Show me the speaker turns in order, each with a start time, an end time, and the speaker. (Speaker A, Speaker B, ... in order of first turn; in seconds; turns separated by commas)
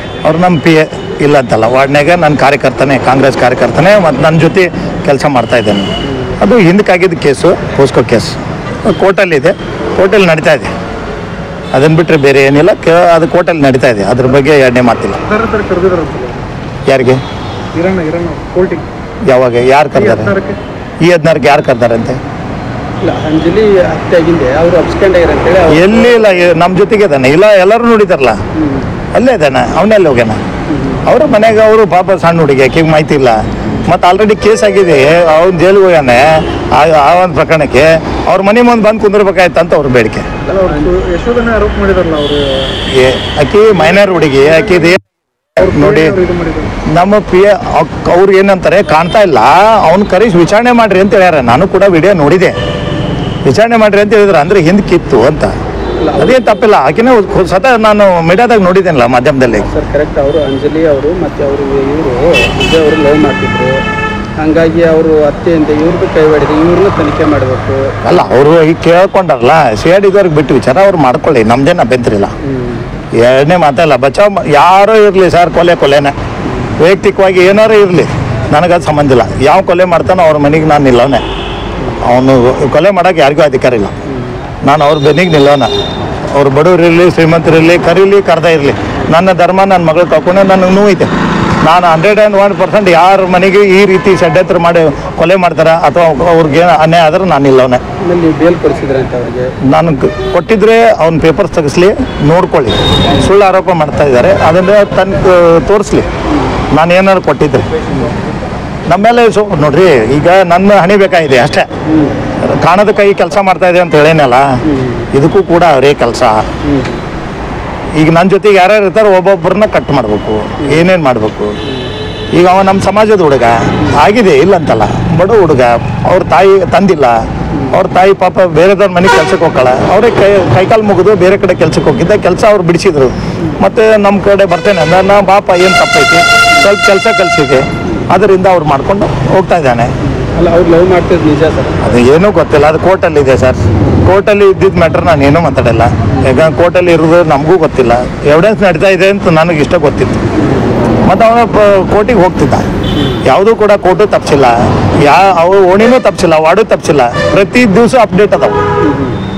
Speaker A: 0.2-10.7, Speaker A: 11.7-15.2, Speaker B: 15.2-16.4, Speaker A: 16.9-17.2, Speaker B: 17.7-18.9, Speaker A: 19.3-20.4, Speaker B: 20.0-20.6, Speaker A: 21.0-22.2, Speaker C: 23.0-26.5, Speaker A: 25.7-28.4, Speaker C: 28.5-28.9, Speaker A: 29.1-30.4, Speaker C: 30.7-31.1, Speaker A: 31.0-40.3, Speaker B: 40.5-42.7, Speaker C: 40.5-41.0, Speaker A: 42.9-45.0, Speaker A: 45.6-46.2, Speaker B: 45.6-46.7, Speaker A: 46.9-52.5, Speaker A: 53.4-55.5, Speaker C: 56.0-56.6, Speaker A: 56.2-59.6, Speaker C: 59.5-63.8, Speaker C: 64.4-68.0, Speaker A: 68.0-72.3, Speaker C: 72.4-72.9, Speaker A: 73.2-76.1, Speaker C: 76.4-76.8, Speaker A: 76.8-81.2, Speaker C: 81.8-82.0, Speaker A: 82.0-84.0, Speaker C: 84.0-84.4, Speaker A: 84.6-85.7, Speaker A: 86.3-91.1, Speaker A: 91.6-97.8, Speaker C: 98.0-99.6, Speaker A: 99.7-106.1, Speaker C: 106.3-106.6, Speaker A: 106.7-107.7, Speaker A: 108.9-111.7, Speaker C: 111.8-112.2, Speaker A: 112.4-114.5, Speaker C: 114.6-115.1, Speaker A: 115.1-116.4, Speaker C: 116.6-117.0, Speaker A: 118.0-121.5, Speaker C: 121.6-121.9, Speaker A: 122.3-127.2, Speaker C: 127.5-127.8, Speaker A: 127.7-139.9, Speaker C: 140.0-142.0, Speaker A: 141.8-150.2, Speaker C: 146.1-146.4, Speaker C: 150.3-150.9, Speaker A: 151.0-152.7, Speaker C: 152.9-153.2, Speaker A: 153.2-158.6, Speaker C: 158.8-159.2